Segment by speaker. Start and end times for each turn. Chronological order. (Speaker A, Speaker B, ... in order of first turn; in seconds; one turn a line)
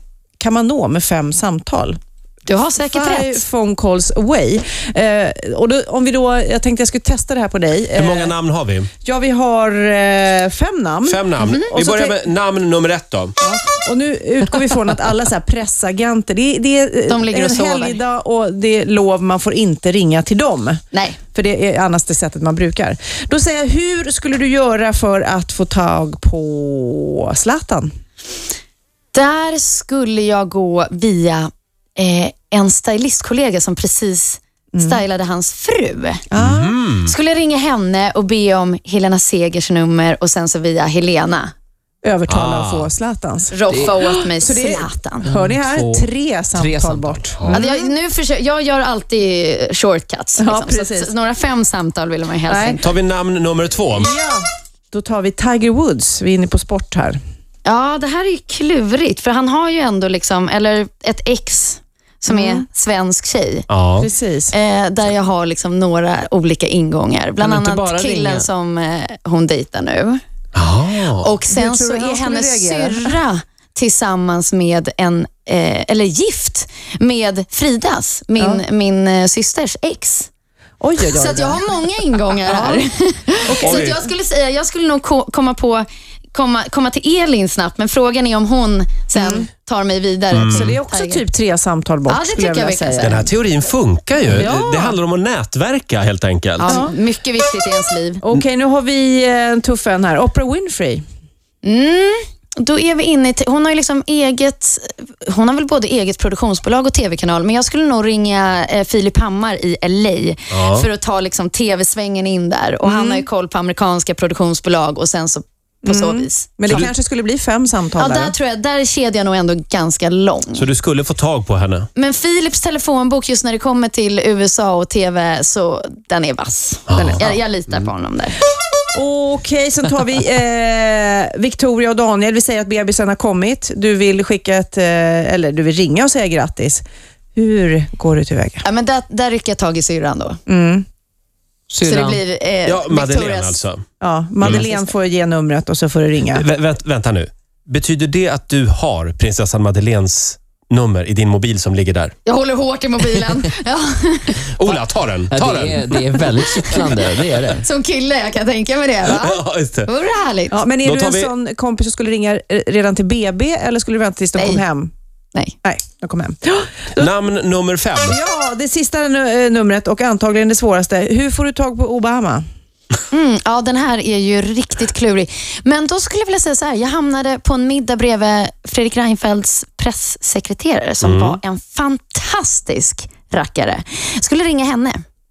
Speaker A: 0.4-2.0
Speaker B: 2.5-3.4
Speaker A: 2.9-8.3
Speaker C: 7.9-8.9
Speaker A: 9.0-12.2
Speaker C: 11.1-13.3
Speaker B: 11.4-11.7
Speaker A: 13.4-20.8
Speaker B: 17.1-18.0
Speaker B: 20.9-21.2
Speaker A: 21.3-27.9
Speaker B: 29.1-36.2
Speaker A: 34.7-35.0
Speaker A: 36.3-36.7
Speaker C: 36.4-37.1
Speaker B: 37.0-41.5
Speaker A: 42.0-47.9
Speaker C: 42.3-42.9
Speaker B: 43.5-45.3
Speaker D: 45.3-47.3
Speaker C: 47.4-47.7
Speaker B: 47.5-53.0
Speaker A: 50.4-51.1
Speaker A: 52.5-52.8
Speaker C: 52.8-54.1
Speaker A: 53.9-57.2
Speaker B: 57.6-63.7
Speaker A: 62.3-62.6
Speaker C: 63.7-64.1
Speaker A: 64.0-64.6
Speaker B: 64.5-70.2
Speaker D: 67.4-68.4
Speaker A: 67.8-68.4
Speaker C: 70.5-71.3
Speaker B: 71.2-80.3
Speaker A: 71.5-73.2
Speaker A: 80.8-81.7
Speaker B: 81.0-91.3
Speaker A: 82.4-82.8
Speaker A: 83.5-84.0
Speaker C: 83.6-84.0
Speaker A: 89.2-89.5
Speaker C: 90.3-90.8
Speaker A: 90.5-93.2
Speaker B: 92.1-93.3
Speaker C: 93.0-96.8
Speaker A: 94.2-95.0
Speaker B: 96.6-98.2
Speaker A: 96.7-96.9
Speaker A: 98.2-101.0
Speaker B: 101.6-116.9
Speaker C: 110.5-110.9
Speaker A: 112.8-113.3
Speaker A: 115.8-118.3
Speaker B: 118.0-120.7
Speaker C: 120.5-121.9
Speaker B: 122.0-128.4
Speaker C: 126.9-127.3
Speaker A: 128.9-136.8
Speaker A: 137.4-138.7
Speaker B: 138.6-140.4
Speaker A: 140.5-140.8
Speaker D: 141.7-142.2
Speaker B: 141.8-143.6
Speaker C: 142.7-143.8
Speaker A: 144.0-146.5
Speaker C: 144.4-144.7
Speaker C: 146.3-152.1
Speaker B: 152.3-154.6
Speaker C: 154.6-155.8
Speaker D: 155.3-157.7
Speaker B: 156.6-156.9
Speaker B: 157.5-160.6
Speaker C: 159.1-159.9
Speaker A: 160.5-164.9
Speaker C: 160.8-161.3
Speaker B: 164.4-164.6
Speaker A: 165.6-167.1
Speaker C: 167.0-168.2
Speaker A: 168.1-172.4
Speaker B: 173.1-185.0
Speaker C: 181.0-181.4